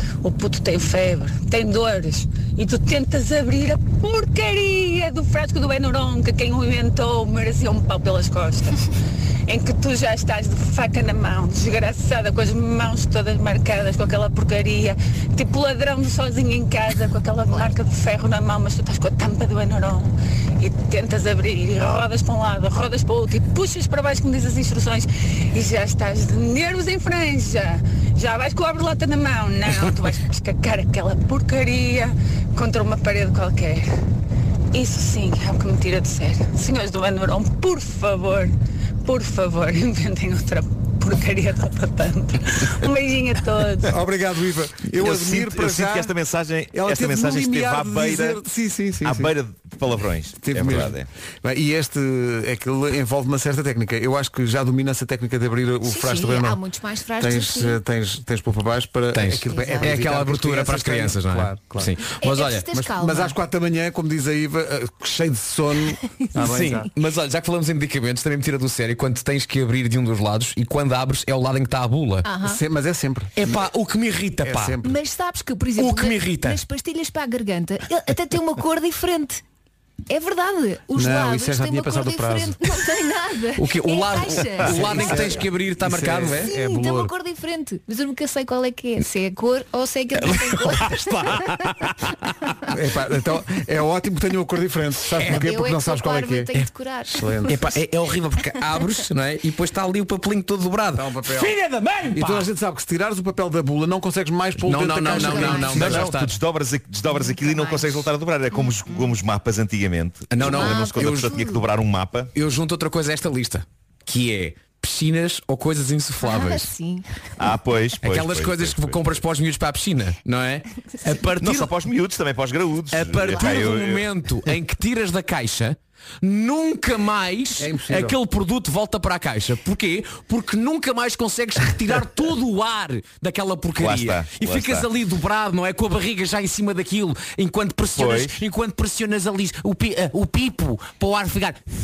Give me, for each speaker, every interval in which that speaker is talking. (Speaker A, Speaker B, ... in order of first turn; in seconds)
Speaker A: 0.2-8.9, 9.5-33.9, 34.7-44.0
Speaker B: 43.9-46.1, 46.7-49.3, 50.4-56.6, 57.2-62.0, 62.7-66.9, 72.4-73.7, 74.4-75.0, 81.0-82.7, 84.7-87.1, 92.7-96.5, 97.1-97.6, 100.9-101.5, 102.1-106.2, 127.6-128.2
Speaker C: 45.0-48.4, 49.0-51.1, 105.7-112.3, 117.4-119.2, 121.4-124.2, 133.8-134.9, 137.9-138.4
Speaker D: 55.9-57.8, 59.5-59.9, 62.2-63.4, 72.2-72.6, 74.8-79.4, 80.1-85.3, 86.4-91.4, 95.3-97.5, 105.1-105.9, 107.1-109.1, 110.4-111.6, 116.2-117.1
Speaker E: 59.1-62.7, 66.4-72.3, 73.4-74.8, 75.8-76.6, 83.6-86.5, 90.2-92.1, 97.5-102.5, 104.6-106.4, 110.3-111.4, 112.3-116.7, 118.0-121.7, 122.9-141.7